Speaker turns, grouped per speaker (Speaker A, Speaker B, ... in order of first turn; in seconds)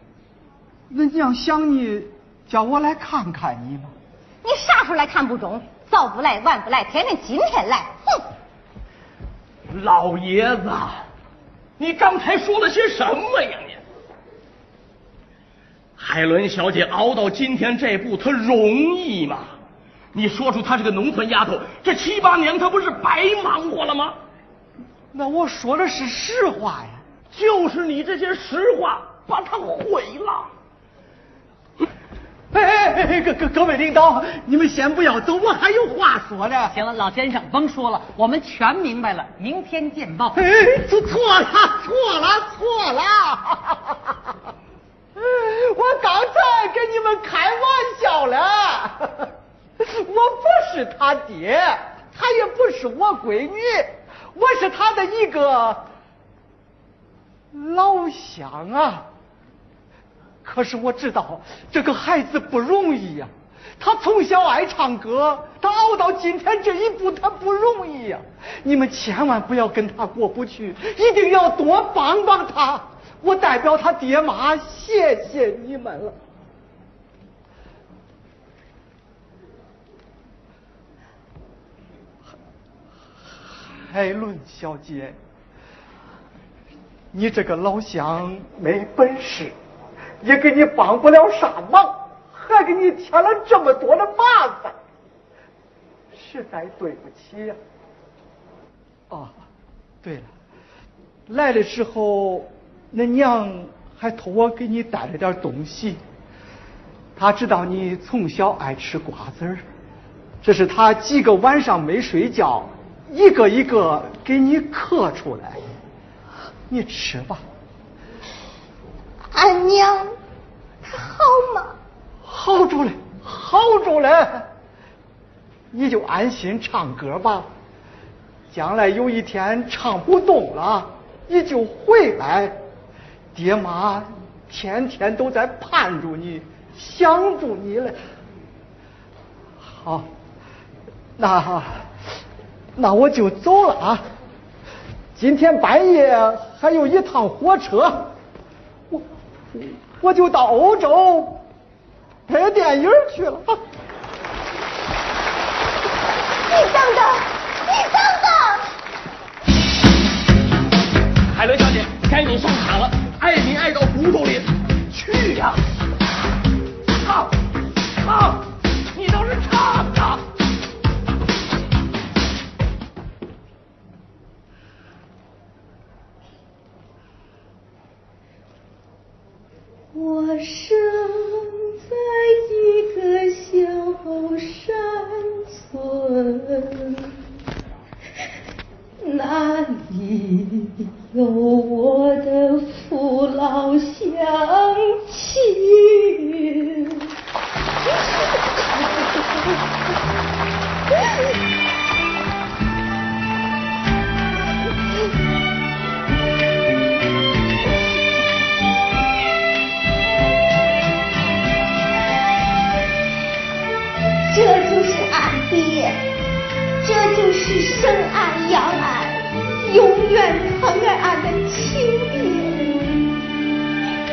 Speaker A: 0.9-3.9, 25.1-27.0, 32.5-36.8, 40.4-44.1, 45.1-55.9, 57.5-59.0, 60.4-76.1, 83.7-85.2, 87.1-89.5, 90.2-94.8, 96.1-97.6, 99.1-99.3, 100.0-100.3, 101.3-106.0, 107.2-109.6, 110.4-115.6, 116.7-117.4, 122.2-124.5, 125.7-127.5, 128.5-132.5, 133.3-138.0, 139.6-140.1, 141.2-141.9, 142.8-144.0, 145.2-148.1, 148.9-151.4, 152.3-153.6
Speaker B: 4.4-8.2, 119.3-120.1, 120.8-121.8, 156.5-158.7, 214.2-216.0, 216.8-223.2
Speaker C: 9.7-11.1, 11.8-13.8, 16.0-19.5, 20.1-24.1, 27.3-30.5, 161.3-165.6, 167.0-167.3, 168.0-170.2
Speaker D: 36.7-40.4
Speaker E: 180.0-181.0, 182.6-183.0, 183.5-184.3, 185.2-186.7, 189.1-190.6, 191.9-195.0, 196.0-196.4